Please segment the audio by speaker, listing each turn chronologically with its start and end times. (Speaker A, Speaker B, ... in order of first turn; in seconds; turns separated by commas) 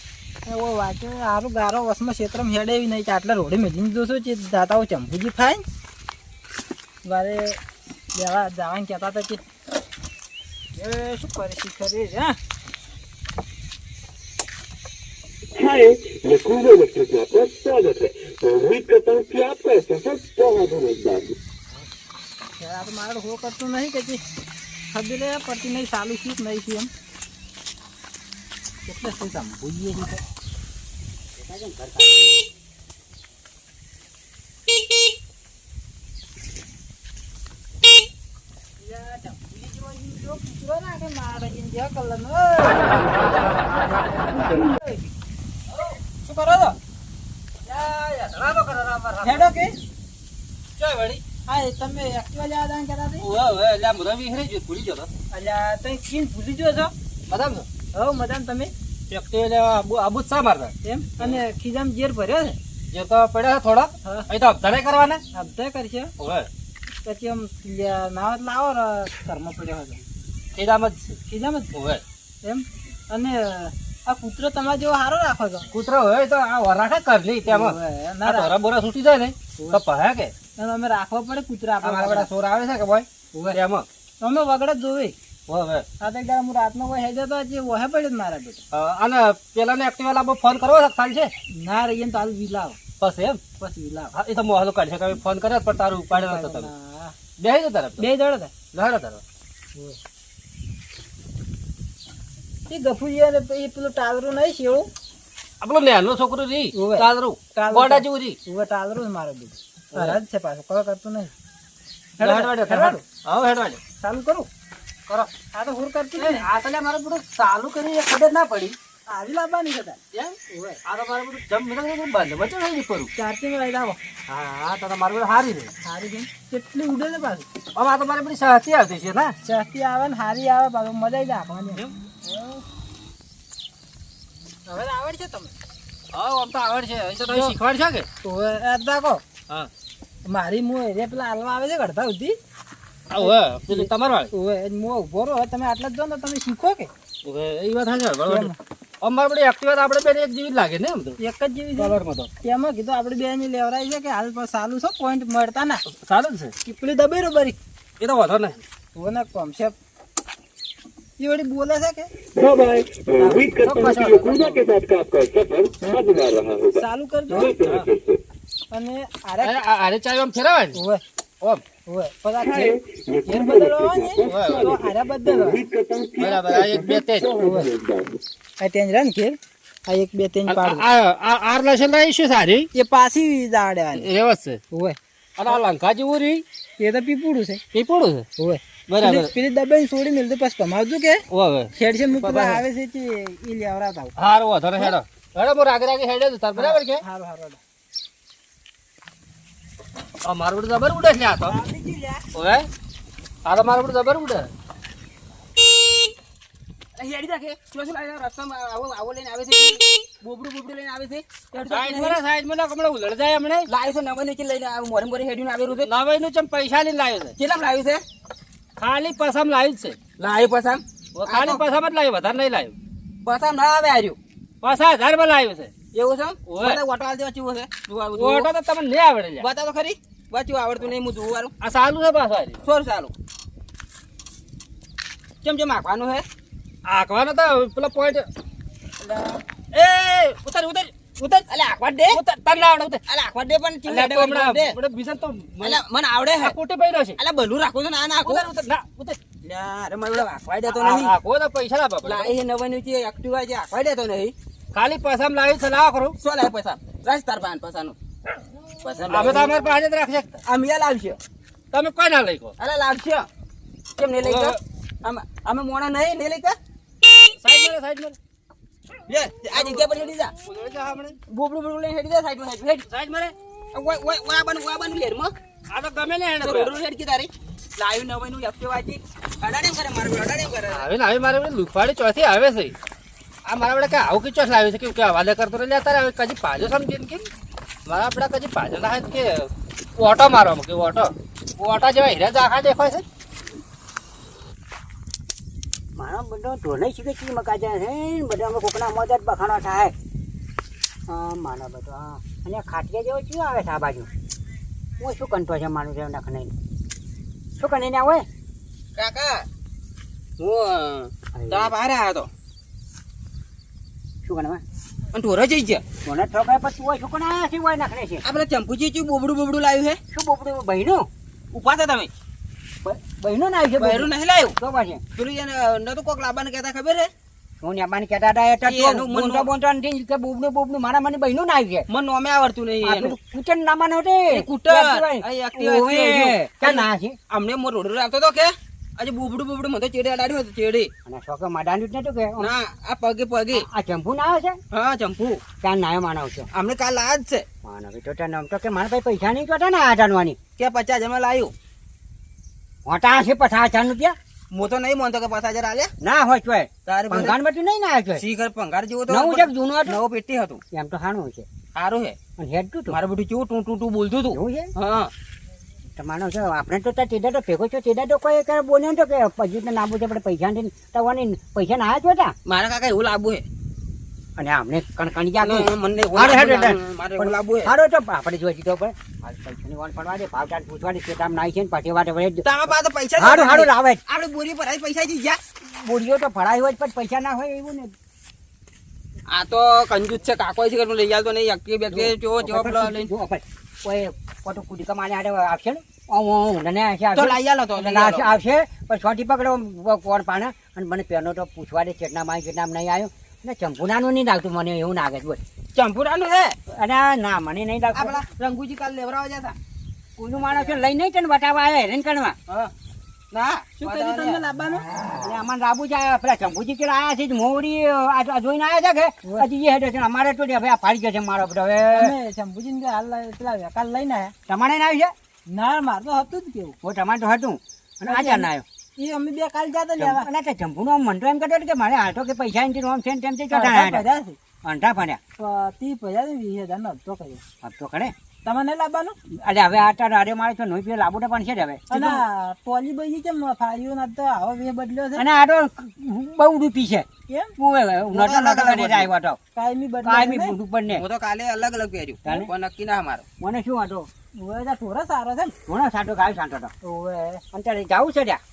Speaker A: 0.4-5.6, Speaker A: 7.0-7.6, Speaker A: 8.1-9.4, Speaker A: 10.8-12.4, Speaker B: 15.5-21.4, Speaker A: 22.6-24.2, Speaker A: 24.9-26.9, Speaker A: 28.9-30.2, Speaker C: 31.4-32.4, Speaker A: 38.8-43.2, Speaker A: 46.2-46.8, Speaker D: 47.6-49.5, Speaker A: 49.2-49.7, Speaker D: 50.8-51.2, Speaker A: 51.5-53.3, Speaker D: 53.2-55.1, Speaker A: 55.3-56.9, Speaker D: 57.3-57.7, Speaker A: 57.9-58.7, Speaker D: 59.1-61.4, Speaker A: 60.8-62.6, Speaker D: 62.9-65.2, Speaker A: 65.3-66.1, Speaker D: 66.2-66.5, Speaker A: 67.0-70.0, Speaker D: 70.5-71.2, Speaker A: 71.3-71.7, Speaker D: 71.7-72.0, Speaker A: 72.4-75.7, Speaker D: 75.7-80.3, Speaker A: 77.5-78.5, Speaker A: 80.6-82.3, Speaker D: 81.8-83.9, Speaker A: 83.3-83.6, Speaker A: 84.2-85.1, Speaker D: 85.5-85.8, Speaker A: 86.0-88.6, Speaker D: 88.7-91.3, Speaker A: 91.5-92.8, Speaker D: 93.0-93.4, Speaker A: 93.6-94.1, Speaker D: 94.1-96.7, Speaker A: 96.1-97.2, Speaker D: 97.4-98.1, Speaker A: 98.0-98.5, Speaker D: 98.7-99.2, Speaker A: 102.7-104.9, Speaker D: 105.6-108.4, Speaker A: 106.7-111.3, Speaker D: 109.9-110.2, Speaker D: 112.2-113.8, Speaker A: 112.2-113.0, Speaker A: 114.0-114.5, Speaker A: 115.5-116.5, Speaker D: 116.2-118.8, Speaker A: 119.1-120.8, Speaker D: 120.1-123.1, Speaker A: 123.1-124.0, Speaker D: 124.3-125.7, Speaker A: 125.8-127.5, Speaker D: 127.8-129.3, Speaker A: 129.4-132.6, Speaker A: 134.7-135.5, Speaker D: 136.1-138.1, Speaker A: 137.2-137.5, Speaker A: 138.2-139.2, Speaker A: 140.2-142.3, Speaker D: 143.1-144.3, Speaker A: 143.2-146.9, Speaker D: 147.2-151.2, Speaker A: 148.2-148.5, Speaker A: 151.2-155.8, Speaker D: 151.8-152.3, Speaker D: 155.9-156.5, Speaker A: 156.6-157.6, Speaker D: 158.0-158.6, Speaker A: 158.9-159.8, Speaker A: 161.2-162.1, Speaker B: 162.3-168.2, Speaker A: 163.2-164.5, Speaker D: 163.6-164.6, Speaker A: 166.7-167.5, Speaker D: 167.6-167.9, Speaker A: 168.7-169.6, Speaker D: 169.4-170.8, Speaker A: 170.8-171.0, Speaker A: 171.8-175.7, Speaker B: 172.4-178.2, Speaker D: 174.2-174.8, Speaker D: 176.2-177.3, Speaker A: 177.4-177.7, Speaker A: 178.6-180.8, Speaker D: 180.5-182.7, Speaker A: 182.7-184.1, Speaker D: 183.9-184.6, Speaker A: 184.7-185.0, Speaker D: 185.4-186.4, Speaker A: 186.8-187.6, Speaker D: 187.7-188.3, Speaker A: 188.4-194.1, Speaker D: 188.9-189.3, Speaker D: 191.3-192.6, Speaker D: 194.2-197.0, Speaker A: 196.5-197.6, Speaker D: 200.2-201.6, Speaker A: 201.4-202.2, Speaker D: 202.3-202.7, Speaker D: 203.4-204.5, Speaker E: 206.9-212.2, Speaker D: 211.6-213.7, Speaker E: 213.7-215.9, Speaker D: 215.8-217.3, Speaker E: 217.4-218.0, Speaker D: 218.8-220.0, Speaker E: 220.2-221.6, Speaker D: 221.2-222.7, Speaker E: 223.2-224.2, Speaker D: 224.6-225.7, Speaker E: 225.9-228.5, Speaker D: 226.4-226.8, Speaker D: 228.1-229.5, Speaker E: 229.4-231.5, Speaker D: 231.6-232.6, Speaker E: 232.6-233.1, Speaker E: 235.4-236.2, Speaker D: 236.8-238.3, Speaker D: 239.7-241.4, Speaker E: 241.5-242.2, Speaker D: 242.1-243.0, Speaker E: 243.1-244.8, Speaker D: 243.9-245.8, Speaker E: 245.6-246.6, Speaker D: 246.4-247.2, Speaker E: 247.2-248.5, Speaker D: 248.2-249.2, Speaker E: 249.4-251.1, Speaker D: 250.7-252.4, Speaker E: 252.0-254.3, Speaker D: 254.7-256.1, Speaker E: 256.2-257.9, Speaker E: 258.8-259.5, Speaker D: 259.1-260.4, Speaker E: 260.4-261.2, Speaker D: 261.7-262.5, Speaker E: 262.6-263.3, Speaker E: 264.0-266.6, Speaker D: 264.2-264.6, Speaker D: 267.4-268.2, Speaker E: 269.1-270.3, Speaker D: 269.5-271.2, Speaker E: 271.3-272.9, Speaker D: 272.9-273.3, Speaker E: 273.7-275.3, Speaker D: 275.7-276.8, Speaker E: 276.4-280.9, Speaker D: 280.7-282.7, Speaker D: 283.4-287.3, Speaker D: 287.9-293.0, Speaker C: 295.9-299.9, Speaker C: 301.1-304.1, Speaker C: 305.0-306.5, Speaker C: 307.6-308.2, Speaker E: 308.9-309.5, Speaker E: 310.4-312.3, Speaker C: 311.3-311.8, Speaker C: 314.2-314.6, Speaker E: 315.1-315.8, Speaker C: 316.1-318.2, Speaker E: 318.2-320.0, Speaker C: 320.1-321.1, Speaker E: 321.5-322.1, Speaker C: 322.8-325.0, Speaker E: 323.8-324.6, Speaker E: 325.1-327.1, Speaker C: 327.6-331.9, Speaker E: 328.6-329.5, Speaker E: 331.9-333.1, Speaker C: 332.8-337.2, Speaker E: 334.3-340.9, Speaker C: 341.1-342.5, Speaker E: 342.4-343.6, Speaker C: 343.5-344.6, Speaker E: 344.7-345.4, Speaker C: 345.6-346.5, Speaker E: 346.5-347.4, Speaker C: 347.6-350.4, Speaker E: 350.6-351.5, Speaker C: 352.8-354.1, Speaker E: 354.5-355.9, Speaker C: 356.0-358.2, Speaker E: 356.9-357.3, Speaker E: 358.2-360.6, Speaker C: 359.1-360.0, Speaker C: 360.7-361.5, Speaker E: 361.8-362.2, Speaker C: 362.4-363.0, Speaker E: 362.9-365.1, Speaker C: 364.3-364.7, Speaker C: 365.9-372.3, Speaker E: 372.4-373.4, Speaker C: 374.4-382.5, Speaker E: 375.4-377.7, Speaker E: 382.4-385.4, Speaker C: 383.2-384.0, Speaker C: 385.6-387.9, Speaker E: 389.3-393.1, Speaker C: 391.9-405.4, Speaker E: 397.1-398.3, Speaker E: 405.8-406.6, Speaker C: 406.7-408.2, Speaker E: 407.9-409.6, Speaker C: 410.2-412.4, Speaker E: 410.4-410.8, Speaker E: 413.3-414.4, Speaker A: 413.8-414.9, Speaker C: 415.0-422.1, Speaker A: 421.9-424.3, Speaker C: 424.5-425.1, Speaker A: 425.5-426.8, Speaker C: 426.8-428.6, Speaker A: 428.1-430.2, Speaker C: 430.0-434.1, Speaker A: 433.5-434.4, Speaker C: 434.6-435.2, Speaker A: 435.4-437.4, Speaker C: 437.6-438.1, Speaker A: 438.4-439.2, Speaker C: 439.3-442.2, Speaker A: 441.9-445.2, Speaker C: 445.1-447.1, Speaker A: 447.3-447.5, Speaker C: 447.6-449.4, Speaker E: 448.1-449.1, Speaker A: 449.6-450.6, Speaker C: 450.0-451.0, Speaker E: 450.9-453.2, Speaker C: 452.2-452.5, Speaker C: 453.4-454.1, Speaker A: 454.4-455.6, Speaker C: 455.7-456.7, Speaker A: 456.8-457.4, Speaker C: 457.5-458.4